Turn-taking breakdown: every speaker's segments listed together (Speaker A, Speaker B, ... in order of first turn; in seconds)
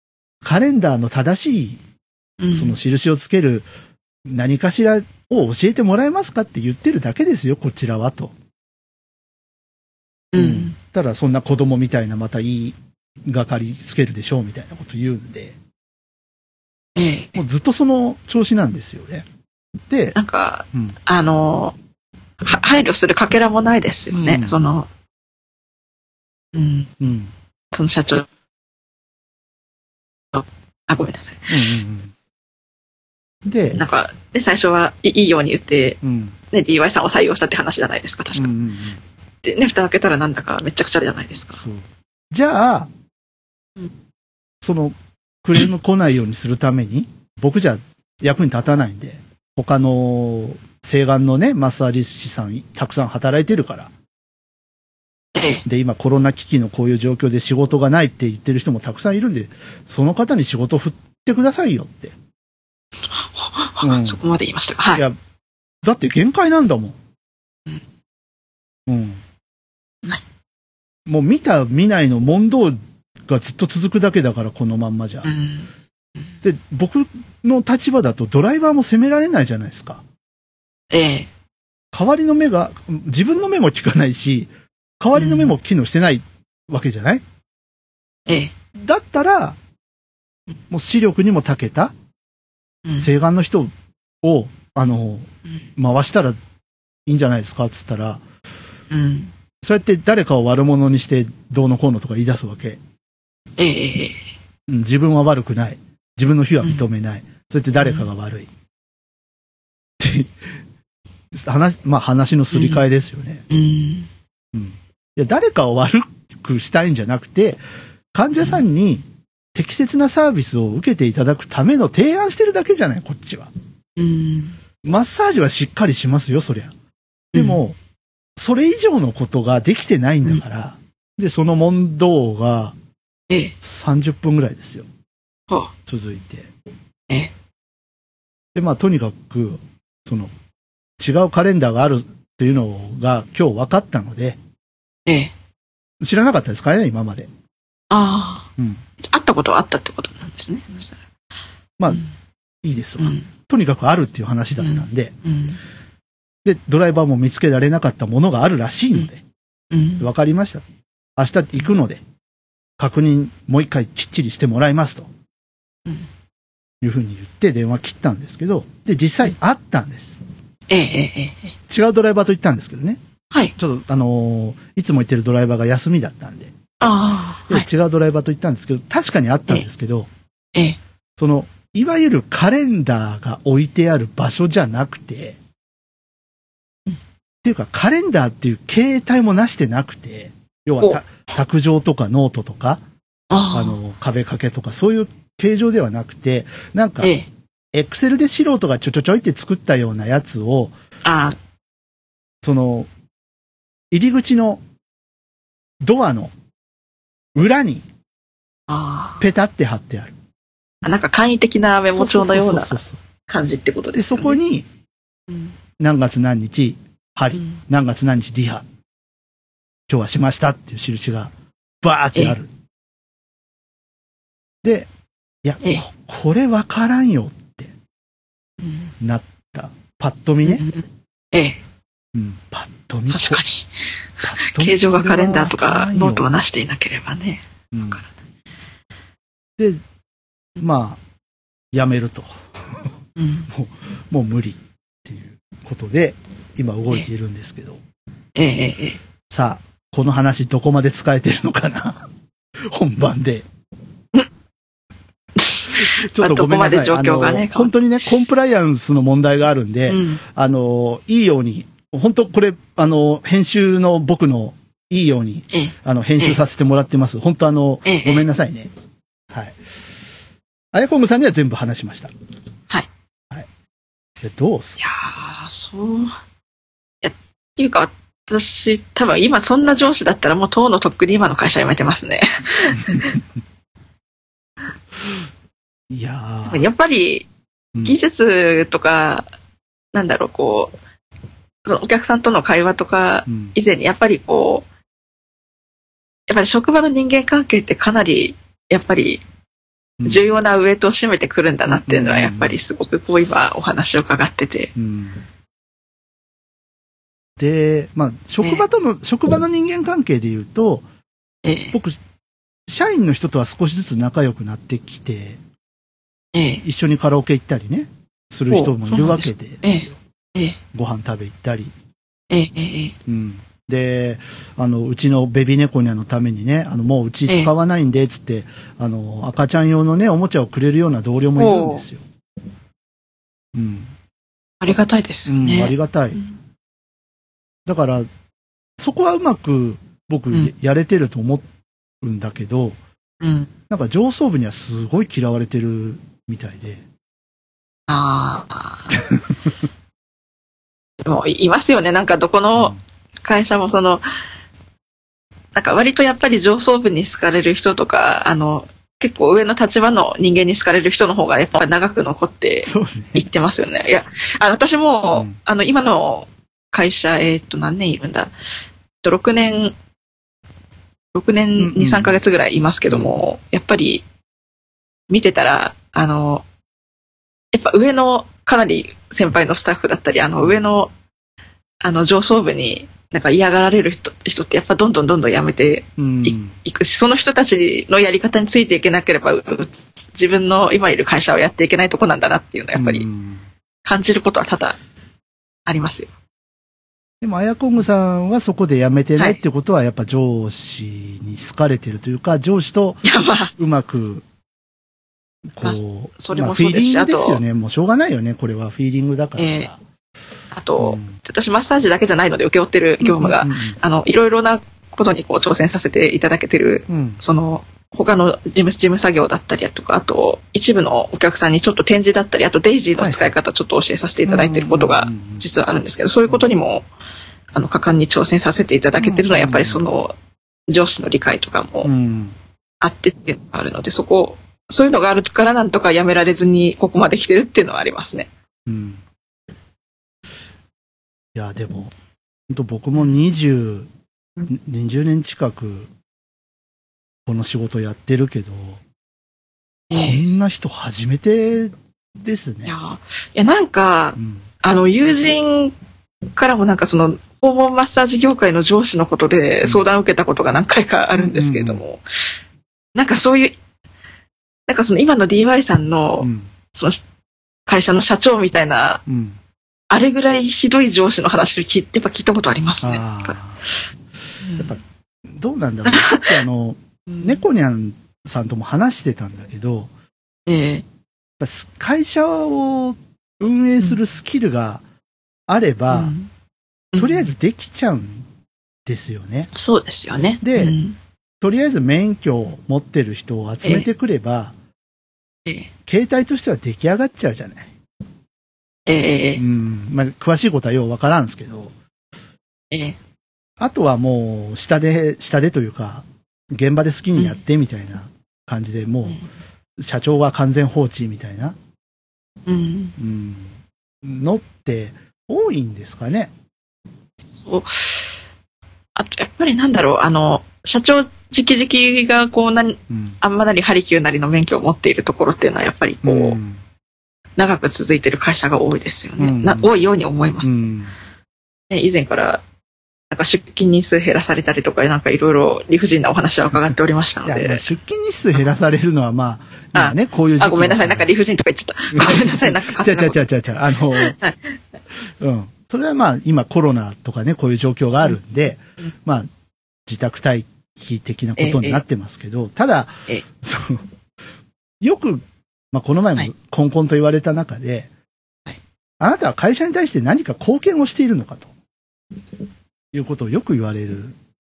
Speaker A: 0.4-1.8, 2.5-3.7, 4.2-8.3, 10.3-15.6, 17.3-19.2, 19.9-20.1, 24.1-24.6, 27.0-27.3, 31.5-32.1, 33.5-33.8, 36.0-36.4, 38.3-39.0, 41.5-42.9, 44.6-53.9, 55.6-62.1, 63.8-64.2, 65.8-67.0, 68.9-69.2, 71.0-75.3, 76.4-80.0, 81.9-87.2, 88.8-89.6, 90.7-91.9, 93.0-96.4, 97.0-98.2, 99.6-102.8, 104.7-108.5, 110.0-110.3, 111.3-113.4, 114.5-123.5, 124.8-126.7, 127.3-127.8, 128.3-132.8, 133.6-134.9, 135.8-136.5, 138.5-140.3, 141.0-144.4, 146.0-147.3, 148.6-148.8, 152.6-155.1, 156.4-159.2, 160.0-160.6, 161.2-162.0, 162.8-165.1, 166.8-170.2, 171.7-173.0, 173.6-176.5, 177.5-180.1, 181.2-185.4, 187.4-192.8, 193.5-197.1, 197.7-200.7, 202.4-202.9, 203.9-204.6, 205.8-206.3, 207.3-207.8, 209.2-210.2, 211.9-213.0, 213.9-214.7, 215.8-218.7, 219.9-222.5, 224.6-224.9, 225.4-227.7, 229.0-230.7, 232.1-233.4, 234.2-236.2, 237.7-238.0, 239.6-239.8, 240.6-241.0, 241.7-242.8, 243.5-247.8, 249.3-252.1, 252.6-253.5, 255.7-268.7, 269.3-269.6, 270.7-272.1, 274.2-274.8, 282.7-283.2, 285.9-286.7, 293.3-293.5, 300.0-300.3, 301.7-302.6, 304.8-305.2, 307.4-310.9, 311.7-312.0, 312.7-315.4, 316.6-319.9, 320.7-321.7, 323.1-332.0, 333.5-333.9, 335.3-336.2, 337.6-338.1, 338.8-341.5, 342.0-342.8, 343.7-346.8, 362.6-363.2, 365.1-365.4, 371.6-372.2, 372.9-373.2, 386.0-386.6, 392.7-393.4, 397.2-404.2, 405.5-409.8, 410.8-411.1, 413.0-413.8, 416.9-417.2, 423.0-423.3, 424.2-425.4, 428.9-429.8, 431.8-432.4, 438.6-439.0, 441.3-441.9, 442.5-443.9, 444.5-445.9, 447.2-448.8, 449.9-452.7, 454.2-454.4, 461.1-461.8, 466.2-466.5, 469.1-469.4, 472.8-473.6, 474.6-479.9, 481.4-484.8, 485.5-486.1, 486.9-488.2, 488.8-489.5, 490.4-490.8, 491.4-494.5, 495.9-497.7, 499.4-501.7, 503.6-509.2, 509.8-511.6, 513.0-516.3, 522.9-523.2, 526.0-526.6, 529.2-529.7, 530.4-530.9, 537.2-541.1, 541.9-544.1, 545.2-549.3, 549.9-553.9, 554.8-557.9, 559.0-561.5, 562.9-564.1
Speaker B: 2.4-2.8, 10.3-10.8, 16.9-17.4, 20.1-21.7, 22.4-24.9, 26.5-26.9, 27.7-28.2, 30.3-31.7, 33.7-36.0, 36.5-38.6, 39.4-41.6, 55.3-55.6, 63.1-65.0, 75.2-75.7, 80.9-81.3, 85.1-85.5, 88.3-88.5, 98.9-99.3, 103.6-104.2, 107.8-108.1, 112.5-112.8, 113.5-114.1, 118.3-118.6, 124.0-124.6, 127.3-127.6, 145.1-145.3, 147.9-148.5, 149.0-151.0, 153.0-153.3, 154.6-155.6, 159.7-160.1, 170.7-171.5, 176.8-177.7, 193.3-193.8, 197.0-197.3, 201.0-201.4, 208.7-209.2, 210.8-214.4, 215.3-215.5, 228.6-228.9, 230.4-231.6, 233.1-233.7, 234.4-238.0, 243.2-243.5, 248.3-249.0, 255.3-257.7, 259.9-260.2, 265.5-266.4, 267.9-268.2, 274.8-276.1, 277.0-283.1, 286.5-287.3, 287.8-289.3, 289.9-290.7, 291.6-294.6, 296.3-299.2, 300.1-304.7, 311.4-311.7, 316.3-316.6, 318.5-320.6, 322.3-322.9, 331.4-331.8, 334.6-336.3, 343.2-343.5, 347.9-348.9, 351.0-354.0, 355.5-368.3, 369.0-369.7, 371.1-374.0, 375.1-376.4, 377.5-380.9, 381.8-393.1, 393.8-394.8, 395.7-396.1, 403.0-403.5, 405.6-407.4, 409.4-409.7, 410.5-426.9, 427.5-430.1, 430.7-431.9, 432.8-438.3, 449.9-450.2, 452.6-455.7, 456.4-462.0, 462.9-463.6, 464.7-467.0, 467.7-469.0, 469.9-473.4, 474.4-474.8, 475.9-476.3, 477.1-477.4, 480.5-480.8, 485.9-486.3, 486.9-487.3, 489.5-491.0, 493.6-493.9, 498.9-499.4, 502.7-503.0, 512.5-512.9, 517.4-518.1, 518.9-526.4, 527.4-530.7, 531.7-532.4, 533.1-537.6, 539.7-543.2, 544.0-544.4, 551.4-551.8